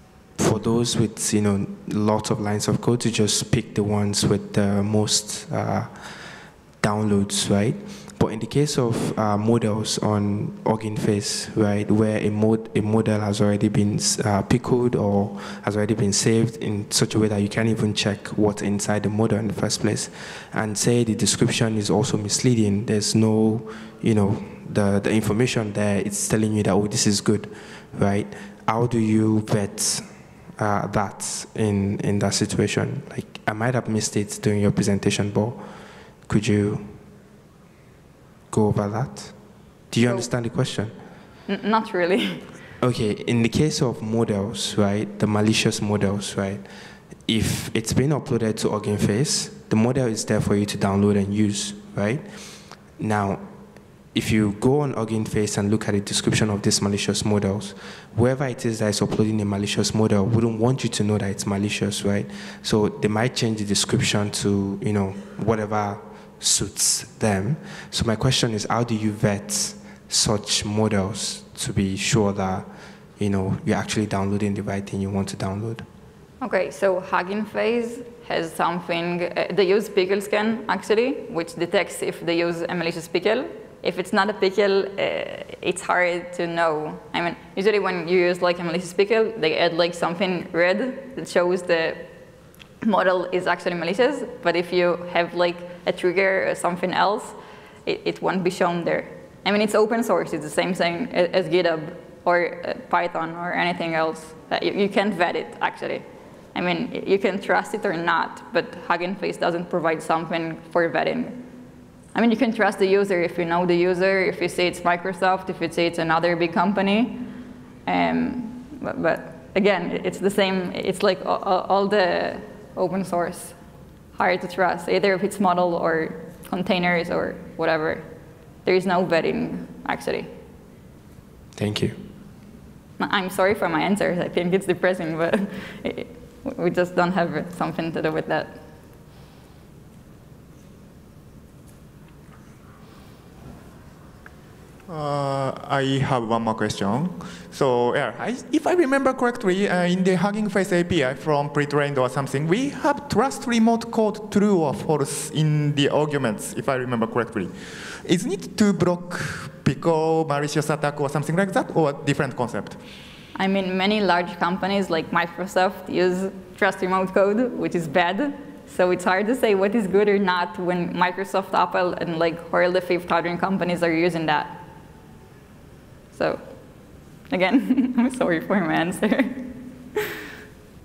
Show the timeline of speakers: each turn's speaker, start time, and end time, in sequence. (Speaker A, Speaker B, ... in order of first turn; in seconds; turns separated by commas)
Speaker A: 0.4-35.6, Speaker A: 36.3-36.9, Speaker A: 38.5-39.4, Speaker A: 39.9-40.9, Speaker B: 40.0-40.3, Speaker B: 41.5-42.5, Speaker A: 42.8-46.6, Speaker A: 47.3-53.5, Speaker A: 54.1-72.7, Speaker A: 73.2-75.9, Speaker B: 76.4-92.1, Speaker B: 92.8-111.5, Speaker B: 112.1-117.3, Speaker B: 117.9-123.6, Speaker B: 124.2-128.1, Speaker B: 128.6-130.3, Speaker A: 131.6-132.0, Speaker B: 133.0-138.6, Speaker C: 144.9-162.8, Speaker B: 163.3-174.7, Speaker B: 176.1-176.5, Speaker B: 177.3-180.0